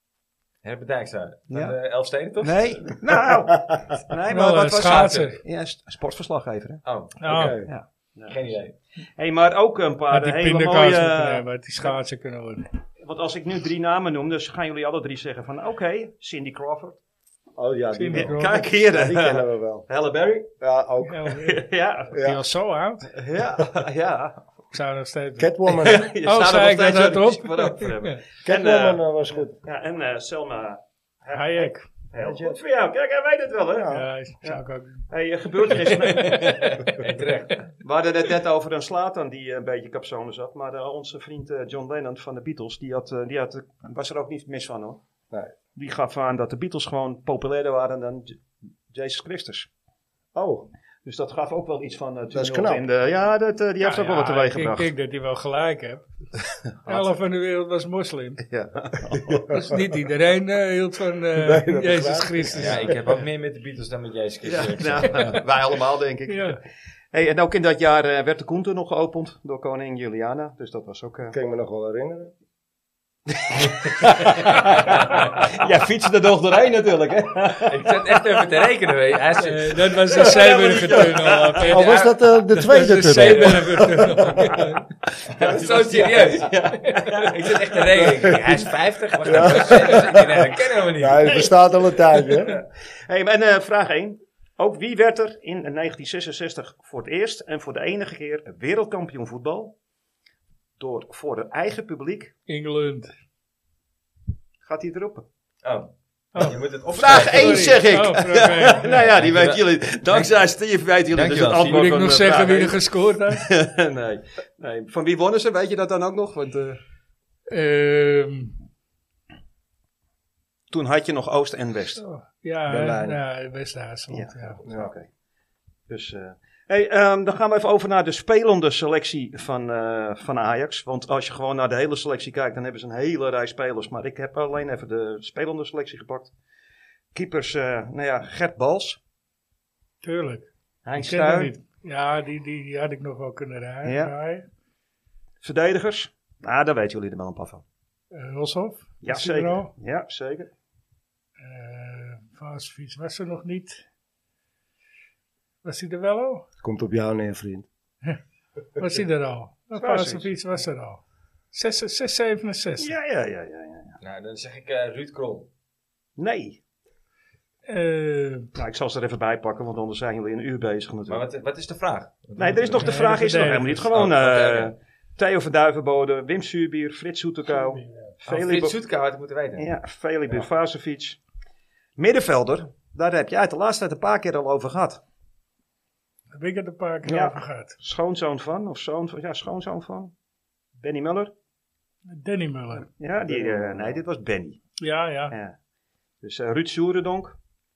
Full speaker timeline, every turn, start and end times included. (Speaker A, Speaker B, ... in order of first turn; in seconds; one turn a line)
Speaker A: 0.6-3.0
Speaker B: 2.4-6.8
Speaker C: 4.3-5.4
Speaker A: 4.8-5.3
Speaker A: 6.8-7.2
Speaker C: 7.2-7.6
Speaker D: 7.3-7.7
Speaker B: 7.4-8.6
Speaker A: 8.3-8.8
Speaker B: 9.2-11.9
Speaker C: 10.1-12.7
Speaker B: 13.0-17.0
Speaker D: 17.6-19.9
Speaker C: 17.9-18.7
Speaker B: 18.1-20.5
Speaker D: 20.6-21.3
Speaker C: 21.0-23.1
Speaker B: 21.4-22.1
Speaker D: 22.1-22.4
Speaker B: 23.1-24.5
Speaker C: 24.7-28.2
Speaker D: 25.4-26.1
Speaker B: 25.8-29.0
Speaker D: 28.4-29.6
Speaker B: 29.6-36.9
Speaker C: 31.3-31.9
Speaker D: 32.2-32.6
Speaker D: 33.8-34.1
Speaker C: 33.9-35.1
Speaker C: 35.7-36.7
Speaker A: 36.3-37.6
Speaker B: 37.8-45.0
Speaker B: 45.8-49.7
Speaker D: 50.4-50.7
Speaker B: 51.0-54.9
Speaker D: 52.3-52.8
Speaker C: 53.8-56.1
Speaker B: 56.8-57.1
Speaker C: 56.9-58.4
Speaker B: 58.5-59.5
Speaker D: 59.3-59.6
Speaker C: 59.5-62.9
Speaker D: 61.4-62.8
Speaker A: 62.6-65.4
Speaker B: 64.4-66.6
Speaker C: 66.3-66.6
Speaker B: 67.1-71.3
Speaker D: 71.3-72.3
Speaker B: 73.3-78.4
Speaker A: 77.7-80.3
Speaker C: 79.4-81.9
Speaker B: 80.1-81.6
Speaker A: 81.6-82.4
Speaker D: 81.7-84.2
Speaker C: 82.6-84.8
Speaker A: 83.1-83.6
Speaker B: 85.3-88.3
Speaker A: 85.3-91.5
Speaker D: 89.2-92.6
Speaker B: 92.3-99.7
Speaker B: 100.8-102.3
Speaker C: 102.5-103.1
Speaker B: 104.6-105.3
Speaker A: 105.6-107.9
Speaker C: 106.3-109.0
Speaker B: 107.0-116.8
Speaker A: 108.8-110.3
Speaker A: 111.1-112.0
Speaker C: 111.7-113.5
Speaker C: 117.5-118.5
Speaker B: 120.7-122.0
Speaker C: 122.0-124.6
Speaker B: 122.7-123.2
Speaker B: 124.1-125.1
Speaker D: 124.7-124.9
Speaker B: 125.9-136.3
Speaker B: 137.1-139.0
Speaker C: 140.0-144.5
Speaker B: 140.8-141.5
Speaker B: 143.8-144.2
Speaker B: 145.4-147.6
Speaker C: 148.1-149.7
Speaker B: 149.0-150.5
Speaker C: 151.4-153.8
Speaker C: 155.6-156.4
Speaker D: 156.6-157.7
Speaker C: 158.8-161.0
Speaker B: 159.8-160.3
Speaker C: 161.5-162.9
Speaker B: 162.8-164.0
Speaker A: 164.0-165.5
Speaker B: 166.2-166.6
Speaker C: 167.7-168.5
Speaker B: 168.6-171.2
Speaker A: 171.1-173.1
Speaker B: 172.4-178.8
Speaker C: 172.8-173.8
Speaker A: 173.9-174.7
Speaker C: 177.6-178.1
Speaker A: 178.3-179.7
Speaker B: 179.6-181.2
Speaker B: 182.0-185.0
Speaker C: 186.3-187.8
Speaker B: 187.1-190.1
Speaker B: 190.8-191.3
Speaker C: 192.1-192.9
Speaker B: 193.0-194.6
Speaker D: 193.3-194.0
Speaker C: 194.8-195.4
Speaker B: 195.3-195.6
Speaker B: 196.2-197.4